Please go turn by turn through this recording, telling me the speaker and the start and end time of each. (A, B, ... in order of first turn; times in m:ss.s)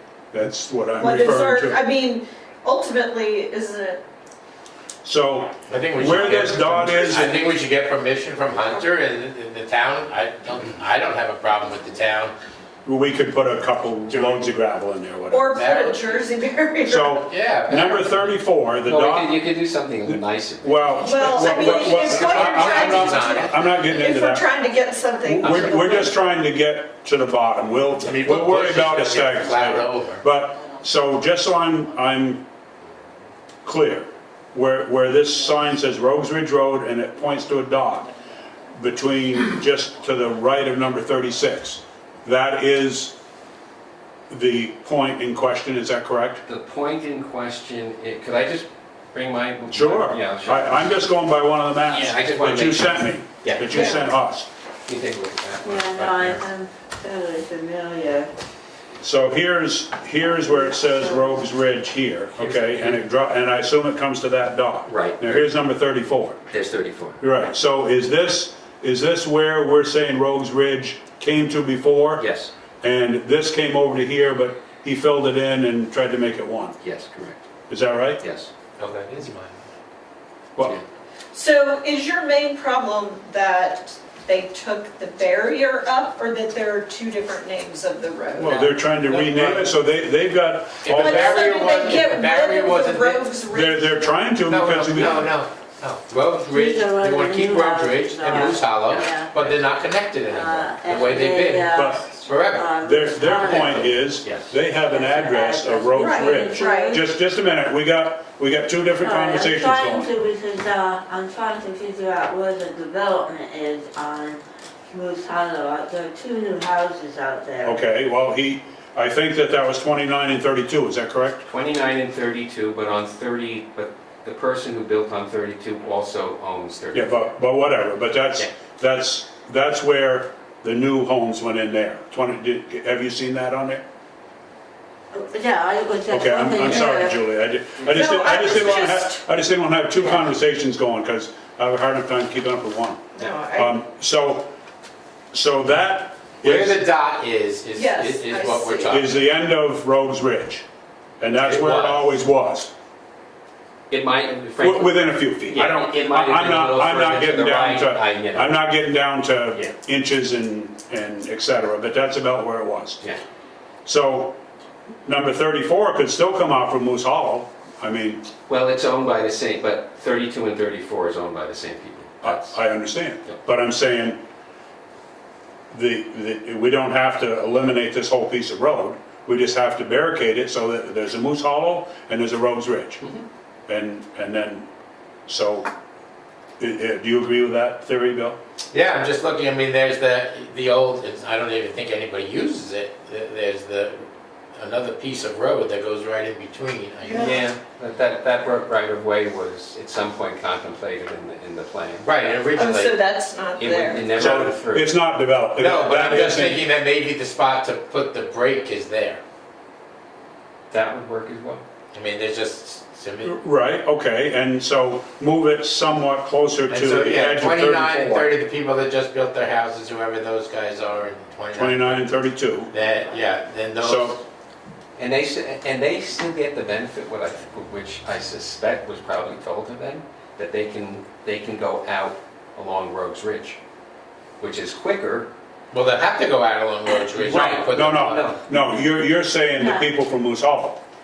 0:00.3-0:01.8 A
0:01.0-0:04.0 B
0:05.0-0:07.5 A
0:05.7-0:12.4 C
0:12.8-0:15.6 A
0:14.1-0:14.4 C
0:15.3-0:17.2 B
0:15.5-0:16.2 C
0:16.8-0:19.4 A
0:17.3-0:18.4 C
0:18.8-0:22.2 D
0:20.0-0:24.5 A
0:21.0-0:26.2 B
0:21.6-0:23.8 C
0:25.3-0:32.5 A
0:28.0-0:30.2 C
0:33.6-0:38.1 A
0:38.8-0:43.2 A
0:44.3-0:46.4 A
0:46.4-0:51.0 D
0:49.7-0:54.5 A
0:51.9-0:53.9 D
0:53.8-0:54.1 E
0:54.8-0:56.4 D
0:55.6-0:58.3 E
0:59.0-1:06.4 A
1:00.5-1:01.4 E
1:02.4-1:03.0 D
1:04.9-1:05.4 D
1:06.5-1:07.2 D
1:07.2-1:12.2 A
1:12.2-1:12.5 D
1:12.8-1:16.8 A
1:16.8-1:17.4 D
1:17.7-1:18.2 A
1:18.2-1:18.5 D
1:18.8-1:19.7 C
1:21.3-1:28.7 B
1:28.4-1:31.4 A
1:28.5-1:29.7 C
1:30.8-1:33.3 C
1:30.9-1:34.1 B
1:33.5-1:35.4 A
1:34.5-1:42.8 C
1:36.5-1:39.5 E
1:38.8-1:39.1 D
1:40.3-1:43.9 E
1:41.7-1:42.1 A
1:42.8-1:50.1 A
1:43.3-1:43.9 C
1:44.1-1:44.6 D
1:44.8-1:47.0 E
1:45.9-1:47.0 B
1:49.0-1:57.8 E
1:57.6-2:01.4 A
2:01.4-2:07.3 D
2:06.9-2:13.8 A
2:15.1-2:17.3 E
2:16.1-2:24.5 A
2:17.8-2:19.2 B
2:23.2-2:23.8 B
2:25.3-2:26.8 A
2:26.4-2:29.2 C
2:27.8-2:29.1 B
2:28.9-2:30.7 A
2:31.2-2:32.7 A
2:31.4-2:32.1 C
2:33.9-2:38.6 D
2:34.6-2:43.0 A
2:43.8-2:44.4 A
2:45.1-2:48.3 A
2:48.5-2:52.6 D
2:52.2-2:54.2 A
2:55.7-3:03.0 A
3:03.7-3:04.7 A
3:05.3-3:05.7 A
3:06.6-3:08.4 A
3:08.7-3:17.5 C
3:17.0-3:17.4 B
3:17.2-3:22.1 D
3:22.0-3:23.0 C
3:22.5-3:24.3 B
3:23.6-3:24.9 D
3:24.1-3:26.7 A
3:25.6-3:29.2 C
3:30.7-3:31.6 D
3:31.9-3:33.4 C
3:33.2-3:38.3 A
3:36.7-3:42.1 C
3:41.5-3:42.7 A
3:42.7-3:44.2 C
3:43.8-3:44.2 A
3:45.0-3:53.6 D
3:54.4-3:55.3 D
3:55.7-3:58.3 C
3:57.1-3:58.9 D
3:57.3-4:00.8 A
3:59.6-3:59.9 E